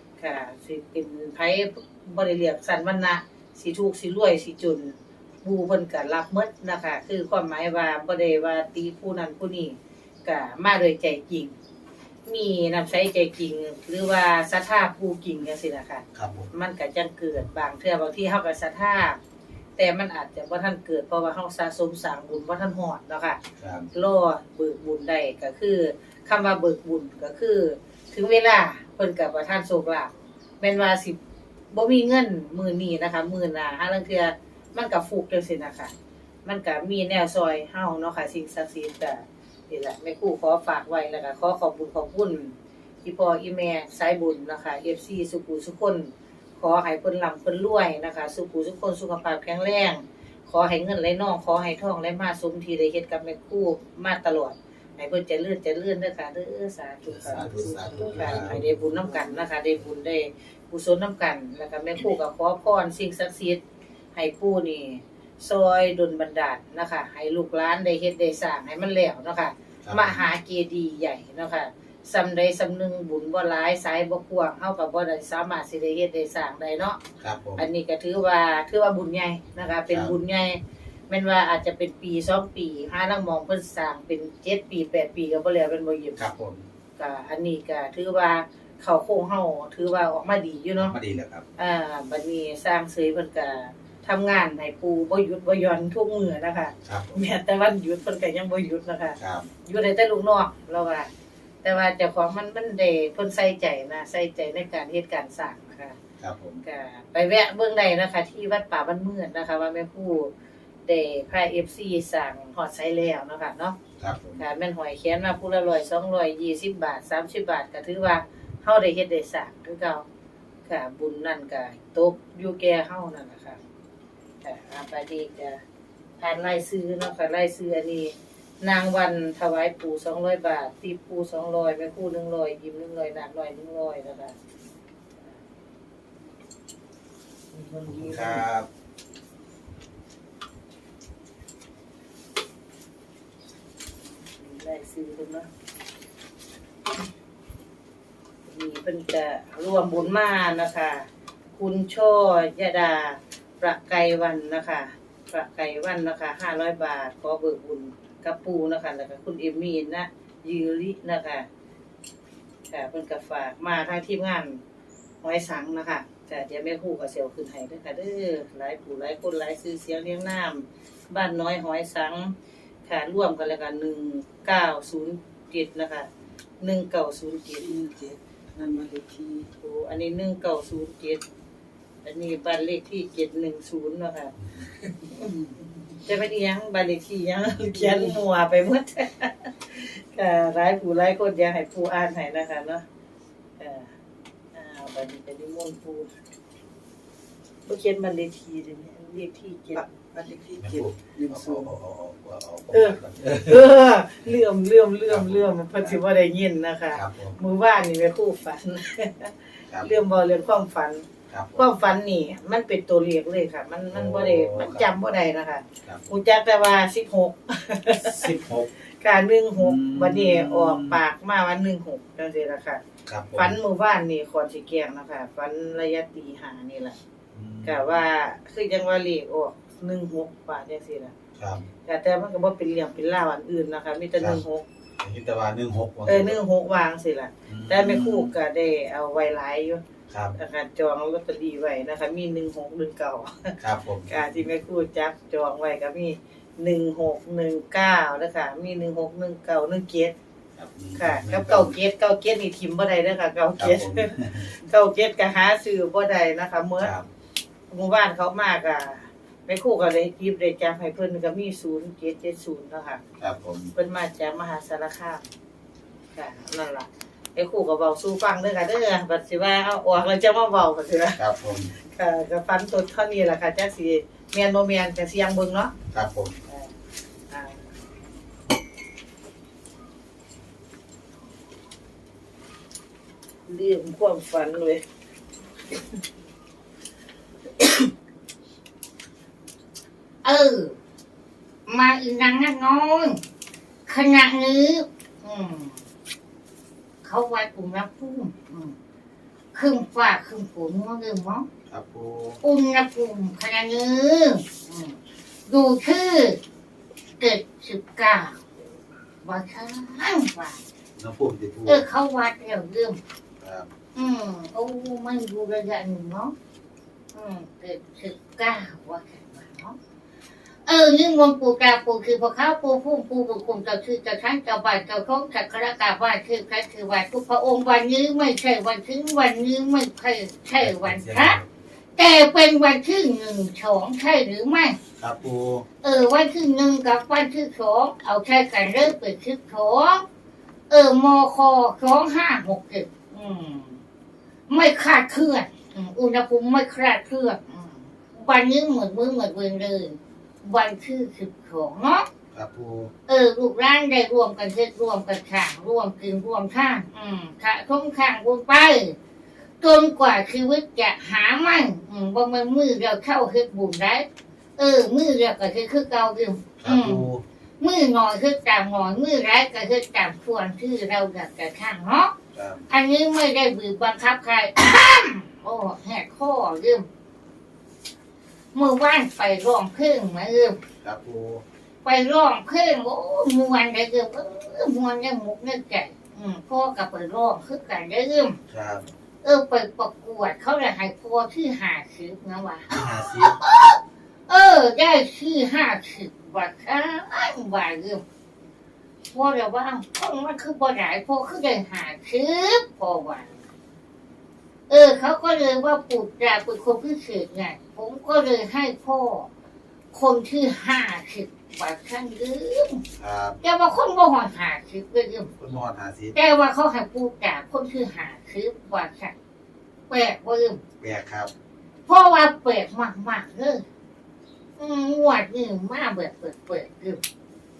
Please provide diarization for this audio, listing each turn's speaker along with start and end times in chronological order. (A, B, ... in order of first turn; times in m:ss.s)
0:00.2-0:11.5 A
0:12.3-0:19.2 A
0:16.2-0:16.5 B
0:19.8-0:23.4 A
0:23.6-0:23.9 B
0:23.9-0:31.2 A
0:31.7-0:35.9 A
0:36.4-1:03.6 A
0:57.1-0:58.6 B
0:57.9-0:58.3 C
1:04.2-1:17.0 A
1:09.8-1:10.2 B
1:17.2-1:17.6 B
1:17.6-1:26.2 A
1:26.2-1:26.7 B
1:27.0-1:31.0 A
1:30.8-1:31.4 B
1:31.6-1:41.1 A
1:36.8-1:37.2 B
1:39.2-1:39.5 B
1:41.6-1:46.0 A
1:46.2-1:46.6 B
1:46.6-1:50.3 A
1:50.9-1:53.8 A
1:54.0-1:54.4 B
1:54.4-2:00.0 A
2:00.7-2:03.6 A
2:04.4-2:05.6 A
2:06.2-2:14.3 A
2:17.5-2:18.4 A
2:17.9-2:18.7 B
2:24.2-2:25.5 A
2:28.5-2:41.5 A
2:42.7-2:44.6 A
2:45.2-2:52.4 A
2:52.9-2:56.1 A
2:56.6-2:58.0 A
2:57.8-2:59.3 C
2:58.6-3:01.2 A
3:02.0-3:05.4 A
3:05.9-3:12.8 A
3:13.6-3:13.9 A
3:14.5-3:16.1 A
3:17.7-3:20.6 A
3:20.0-3:21.6 C
3:20.6-3:23.6 B
3:21.2-3:21.6 A
3:22.7-3:38.3 A
3:25.1-3:26.0 B
3:26.9-3:27.4 B
3:31.3-3:31.6 B
3:33.9-3:34.9 B
3:38.0-3:38.7 B
3:39.0-3:42.8 A
3:39.6-3:41.0 B
3:43.1-3:43.6 B
3:43.3-3:47.0 A
3:47.3-3:47.9 B
3:47.6-3:51.1 A
3:51.4-3:51.7 B
3:51.9-3:54.6 A
3:55.0-3:56.4 B
3:56.1-3:59.8 A
3:57.5-3:58.4 B
4:00.1-4:00.4 B
4:00.4-4:03.5 A
4:03.6-4:04.1 B
4:04.1-4:10.1 A
4:10.6-4:11.8 B
4:11.0-4:16.9 A
4:13.6-4:14.5 B
4:16.8-4:17.1 B
4:17.7-4:23.0 A
4:23.2-4:23.7 B
4:23.8-4:25.2 A
4:26.2-4:31.2 A
4:31.2-4:31.7 B
4:31.8-4:35.7 A
4:35.9-4:36.4 B
4:37.3-4:37.6 A
4:43.5-4:44.8 A
4:50.2-4:50.8 D
4:51.7-4:53.2 D
4:53.9-4:55.8 D
4:57.0-4:58.8 D
4:59.5-5:01.5 D
5:01.7-5:02.4 B
5:02.4-5:05.0 D
5:05.5-5:06.4 D
5:07.2-5:08.4 D
5:09.2-5:10.6 D
5:11.0-5:11.8 B
5:11.7-5:13.0 D
5:13.4-5:13.7 B
5:14.0-5:16.3 D
5:17.1-5:19.8 D
5:20.7-5:31.4 D
5:30.6-5:31.5 B
5:32.0-5:34.8 D
5:35.0-5:35.6 B
5:35.8-5:40.0 D
5:40.7-5:43.8 D
5:44.5-5:52.1 D
5:52.3-5:52.9 B
5:53.1-5:59.0 D
5:59.6-6:04.1 D
6:04.6-6:07.0 D
6:06.6-6:07.2 B
6:07.6-6:12.1 D
6:12.3-6:12.7 B
6:12.7-6:16.9 D
6:18.5-6:20.6 D
6:20.8-6:21.4 B
6:21.8-6:28.4 D
6:28.5-6:28.9 B
6:29.2-6:38.0 D
6:32.7-6:33.4 B
6:39.1-6:43.3 D
6:44.7-6:49.3 D
6:49.9-6:52.8 D
6:53.0-6:53.4 B
6:53.4-6:55.3 D
6:55.4-6:56.2 B
6:56.2-6:59.1 D
6:59.9-7:00.6 D
7:00.8-7:01.3 B
7:01.9-7:03.6 D
7:04.6-7:07.0 D